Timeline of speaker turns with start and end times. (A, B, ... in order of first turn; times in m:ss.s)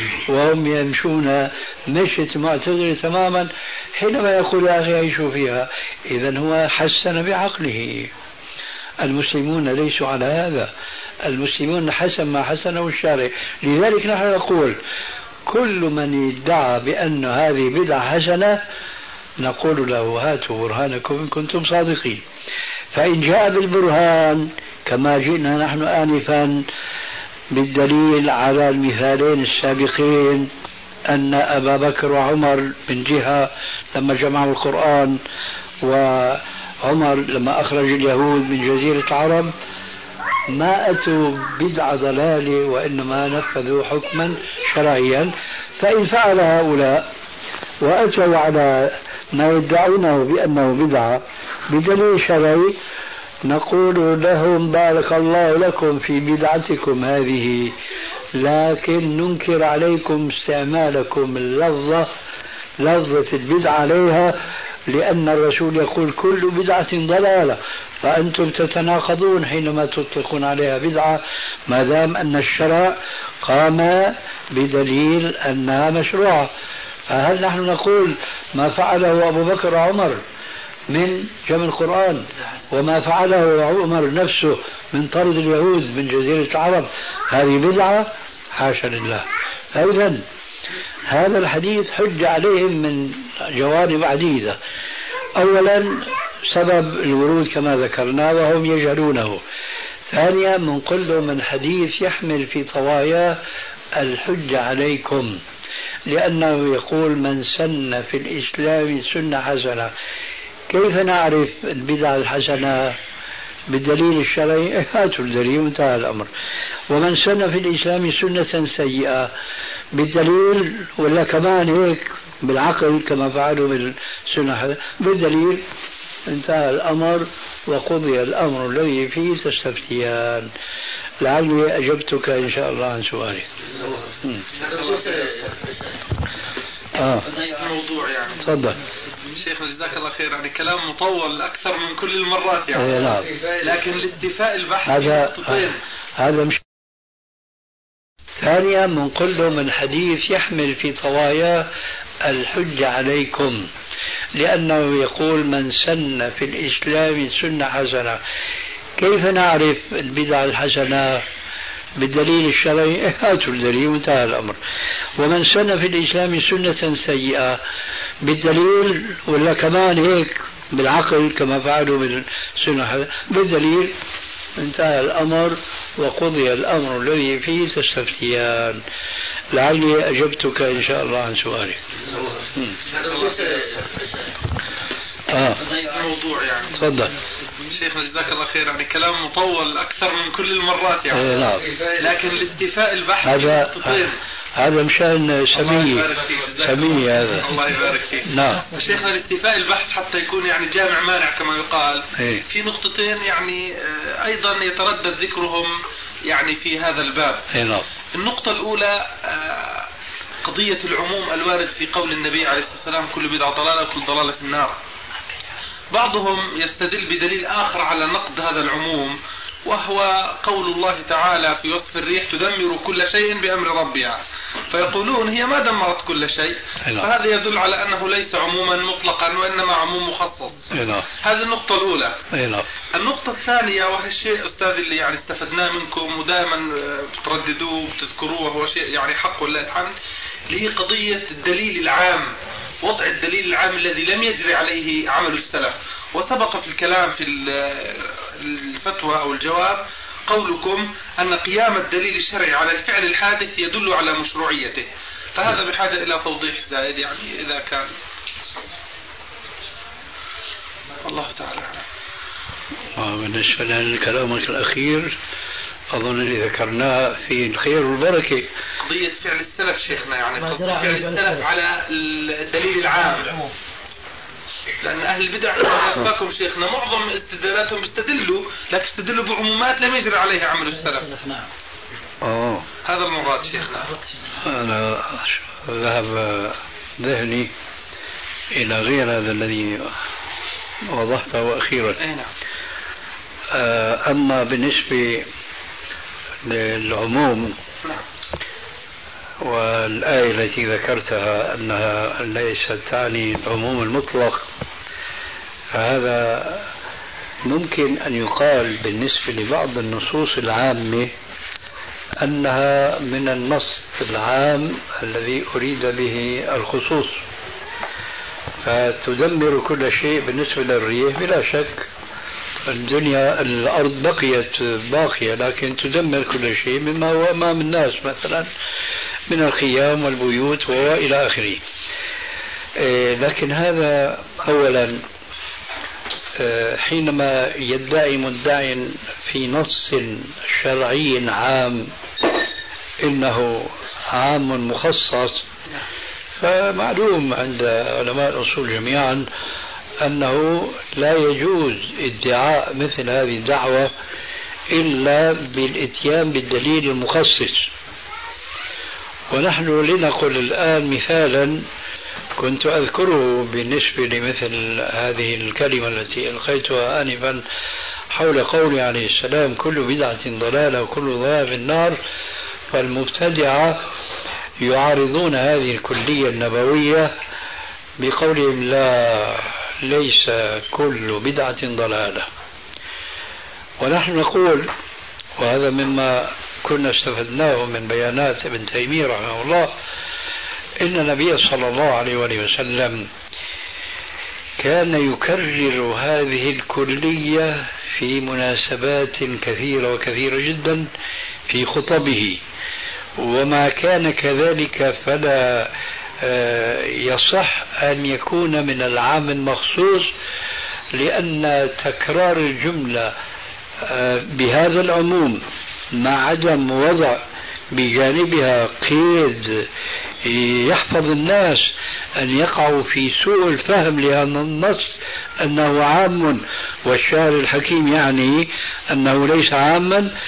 0:00.2-0:08.1 A
0:09.0-0:10.7 A
0:11.2-0:14.8 A
0:15.4-0:18.6 A
0:19.4-0:22.2 A
0:22.9-0:26.7 A
0:27.5-0:30.5 A
0:31.1-0:35.2 A
0:35.8-0:39.5 A
0:40.5-0:47.1 A
0:47.8-0:52.7 A
0:53.4-0:57.7 A
0:58.4-1:02.1 A
1:02.8-1:16.5 A
1:17.1-1:20.2 A
1:20.9-1:30.2 A
1:31.1-1:34.6 A
1:35.4-1:39.4 A
1:40.1-1:43.4 A
1:44.0-1:45.4 A
1:46.1-1:49.9 A
1:50.7-1:53.0 A
1:53.7-1:56.3 A
1:56.9-1:59.3 A
1:59.9-2:05.6 A
2:06.3-2:10.5 A
2:11.2-2:13.5 A
2:13.7-2:16.0 B
2:17.0-2:17.3 A
2:17.2-2:18.4 C
2:18.4-2:18.8 A
2:19.3-2:25.8 C
2:22.7-2:23.3 A
2:24.8-2:26.6 A
2:28.4-2:31.7 A
2:32.2-2:33.7 A
2:34.3-2:38.2 A
2:39.0-2:41.2 A
2:42.0-2:44.6 A
2:45.2-2:47.6 A
2:48.2-2:53.9 A
2:54.6-2:58.8 A
2:59.5-3:01.8 A
3:02.1-3:04.3 B
3:05.3-3:05.6 A
3:05.6-3:06.8 C
3:06.8-3:07.1 A
3:07.7-3:14.2 C
3:11.1-3:11.7 A
3:13.2-3:16.1 A
3:15.5-3:25.7 C
3:16.6-3:17.5 A
3:18.2-3:18.6 A
3:22.2-3:22.4 A
3:26.2-3:27.5 C
3:27.5-3:27.8 A
3:28.1-3:29.9 C
3:30.4-3:34.7 C
3:35.9-3:52.2 C
3:50.7-3:51.1 A
3:52.3-3:52.6 A
3:52.9-3:59.9 C
4:00.5-4:02.3 C
4:02.8-4:17.9 C
4:21.0-4:21.8 C
4:23.0-4:25.1 A
4:25.9-4:28.5 A
4:28.8-4:33.5 C
4:34.8-4:41.1 C
4:41.2-4:41.5 B
4:42.2-4:42.6 A
4:42.8-4:43.9 C
4:44.4-4:47.5 A
4:48.5-4:49.9 A
4:50.8-4:52.0 A
4:52.0-4:52.3 C
4:53.5-4:55.2 A
4:56.4-4:57.6 A
4:59.4-5:04.4 A
5:05.7-5:06.7 A
5:07.4-5:11.1 A
5:12.2-5:17.2 A
5:18.6-5:21.9 A
5:22.6-5:28.5 A
5:29.3-5:31.6 A
5:32.8-5:35.0 A
5:36.4-5:41.9 A
5:43.0-5:45.4 A
5:46.4-5:49.3 A
5:50.0-5:53.9 A
5:54.7-5:57.7 A
5:59.3-6:01.6 A
6:02.4-6:07.4 A
6:08.1-6:12.0 A
6:12.7-6:13.8 A
6:14.6-6:17.1 A
6:18.0-6:22.3 A
6:23.8-6:24.7 A
6:25.4-6:29.7 A
6:30.8-6:33.1 A
6:34.6-6:40.9 A
6:41.5-6:42.4 A
6:43.2-6:50.1 A
6:50.9-6:53.1 A
6:53.8-6:55.4 A
6:55.9-6:57.2 A
6:57.7-6:59.6 A
7:00.2-7:10.1 A